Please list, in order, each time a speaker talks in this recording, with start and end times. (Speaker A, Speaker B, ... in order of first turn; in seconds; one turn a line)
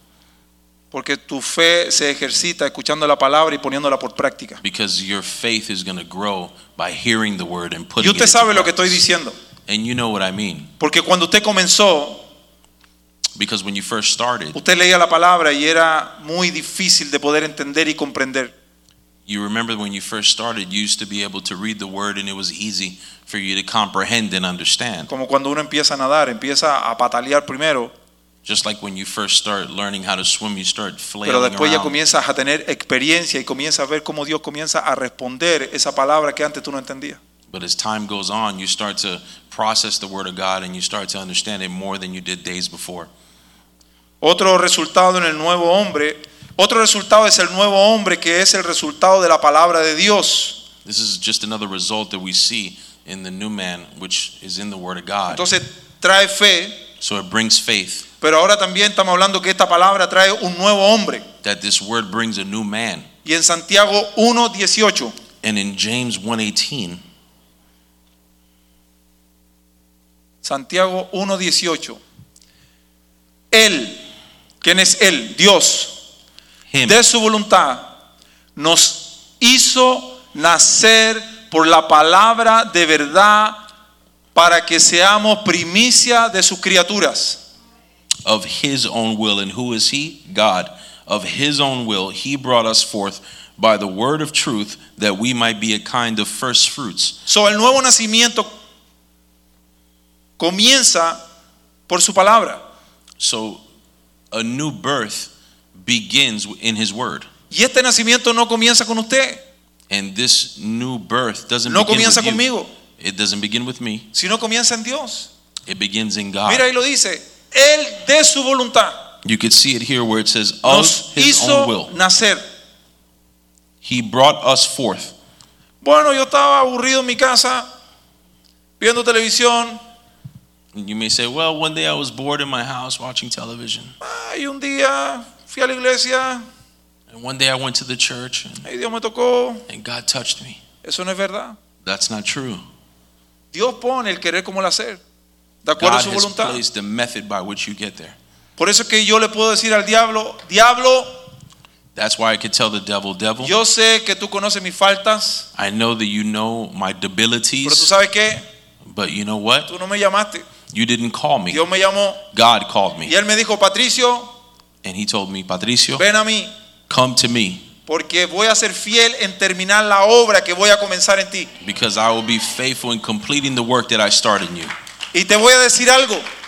Speaker A: 0.9-4.6
Speaker B: 4.6-9.0
Speaker A: 8.0-9.4
Speaker B: 9.7-10.7
Speaker A: 10.8-12.2
Speaker B: 13.3-14.6
Speaker A: 14.5-18.5
Speaker B: 19.3-25.1
Speaker A: 25.1-27.9
Speaker B: 28.4-32.0
Speaker A: 31.2-37.2
Speaker B: 37.5-43.1
Speaker A: 44.2-50.6
Speaker B: 50.8-55.5
Speaker A: 55.3-56.9
Speaker B: 57.0-58.1
Speaker A: 58.2-61.3
Speaker B: 61.4-63.1
Speaker A: 63.2-65.2
Speaker B: 65.4-67.0
Speaker A: 70.4-72.0
Speaker A: 73.5-74.0
Speaker A: 74.6-76.0
Speaker B: 76.7-77.0
Speaker A: 76.9-77.9
Speaker A: 78.6-83.6
Speaker A: 84.3-87.4
Speaker B: 88.2-97.2
Speaker A: 97.3-98.5
Speaker A: 100.4-101.2
Speaker A: 101.9-102.6
Speaker B: 103.2-103.6
Speaker B: 104.3-107.3
Speaker A: 107.5-109.4
Speaker B: 109.9-112.5
Speaker A: 111.7-112.7
Speaker B: 113.0-114.1
Speaker A: 114.1-115.3
Speaker B: 115.7-116.7
Speaker A: 116.5-119.0
Speaker B: 119.2-121.9
Speaker A: 120.7-122.4
Speaker B: 123.8-125.1
Speaker A: 125.8-127.7
Speaker A: 128.8-129.8
Speaker B: 130.7-133.9
Speaker A: 134.0-136.5
Speaker B: 137.1-138.7
Speaker A: 138.7-139.7
Speaker B: 139.7-140.6
Speaker A: 140.8-141.6
Speaker B: 141.8-142.6
Speaker A: 143.5-145.0
Speaker A: 145.7-146.6
Speaker B: 145.8-148.2
Speaker A: 148.6-151.1
Speaker B: 151.9-153.5
Speaker A: 153.4-155.5
Speaker B: 155.6-157.9
Speaker A: 157.7-158.4
Speaker B: 158.8-159.7
Speaker A: 159.7-160.5
Speaker B: 160.7-161.7
Speaker A: 161.5-162.2
Speaker B: 162.3-163.1
Speaker A: 163.1-164.3
Speaker B: 164.8-166.0
Speaker A: 166.0-166.5
Speaker B: 166.9-167.7
Speaker A: 167.9-171.5
Speaker B: 171.6-174.7
Speaker A: 175.1-176.2